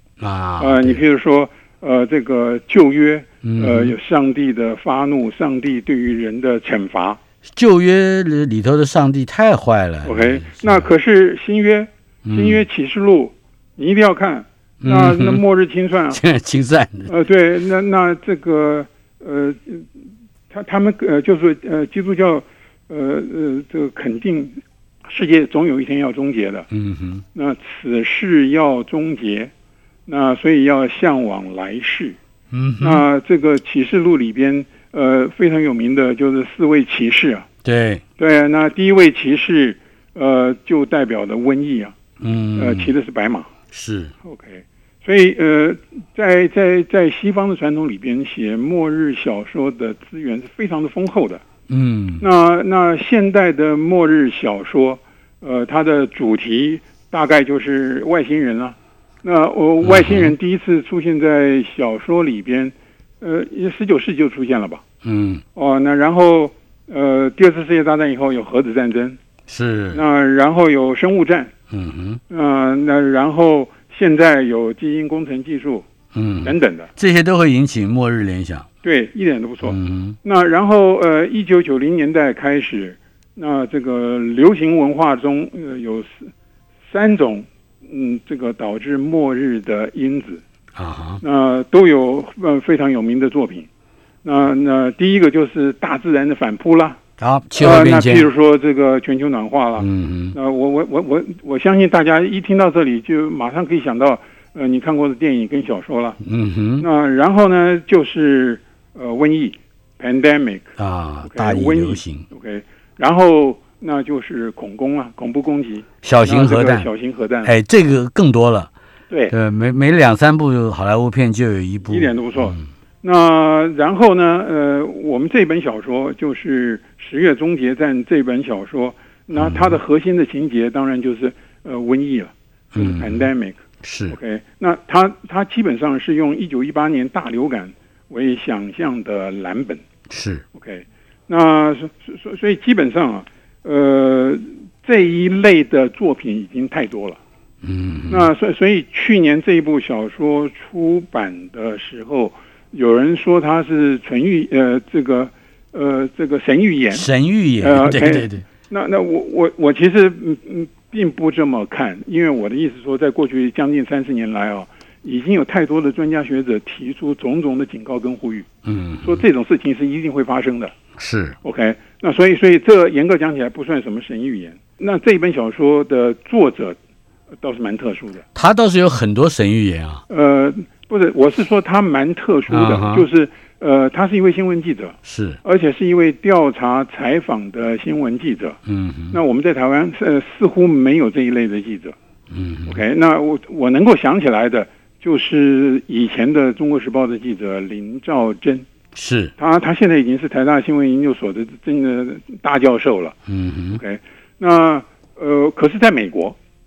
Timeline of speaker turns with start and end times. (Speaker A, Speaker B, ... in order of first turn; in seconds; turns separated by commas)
Speaker A: 0.2-1.0, Speaker B: 0.6-7.2, Speaker A: 3.4-3.9, Speaker A: 7.5-10.9, Speaker B: 10.0-16.2, Speaker A: 12.2-12.6, Speaker A: 14.8-15.4, Speaker A: 16.1-17.1, Speaker B: 17.1-19.9, Speaker B: 20.5-26.7, Speaker A: 26.7-27.2, Speaker B: 27.3-29.5, Speaker B: 30.1-32.2, Speaker A: 32.5-33.0, Speaker B: 32.8-37.5, Speaker A: 37.6-38.0, Speaker B: 38.2-41.9, Speaker A: 42.2-42.9, Speaker B: 42.5-43.5, Speaker A: 43.7-44.1, Speaker B: 44.2-51.4, Speaker A: 51.7-52.2, Speaker B: 52.2-64.8, Speaker A: 59.8-60.3, Speaker A: 65.0-65.4, Speaker B: 65.5-69.2, Speaker A: 69.5-70.0, Speaker B: 69.9-71.5, Speaker A: 71.7-72.2, Speaker B: 72.3-75.8, Speaker A: 76.1-78.7, Speaker B: 76.4-76.9, Speaker B: 78.8-86.3, Speaker A: 79.6-80.2, Speaker B: 86.9-90.4, Speaker A: 90.7-91.2, Speaker B: 91.2-93.7, Speaker B: 94.2-97.0, Speaker A: 97.2-98.3, Speaker B: 97.6-106.2, Speaker A: 99.8-100.3, Speaker A: 106.2-106.8, Speaker B: 106.8-110.7, Speaker A: 110.8-112.2, Speaker B: 111.2-117.5, Speaker A: 116.0-116.9, Speaker A: 117.4-118.7, Speaker A: 119.3-122.6, Speaker B: 121.8-139.8, Speaker A: 129.3-129.8, Speaker A: 132.7-133.2, Speaker A: 133.8-134.2, Speaker A: 140.1-140.4, Speaker B: 140.5-147.2, Speaker A: 147.6-148.3, Speaker B: 148.1-157.1, Speaker A: 156.9-158.4, Speaker B: 157.6-168.5, Speaker A: 168.6-169.2, Speaker B: 169.0-170.7, Speaker A: 171.0-171.4, Speaker B: 171.4-176.8, Speaker B: 177.4-178.2, Speaker A: 178.3-180.0, Speaker B: 180.1-188.6, Speaker A: 182.5-183.1, Speaker A: 185.0-185.4, Speaker A: 188.7-189.2, Speaker B: 189.1-191.9, Speaker A: 192.3-192.8, Speaker B: 192.7-198.7, Speaker A: 198.9-199.3, Speaker B: 199.4-203.2, Speaker A: 203.3-203.8, Speaker B: 203.7-206.3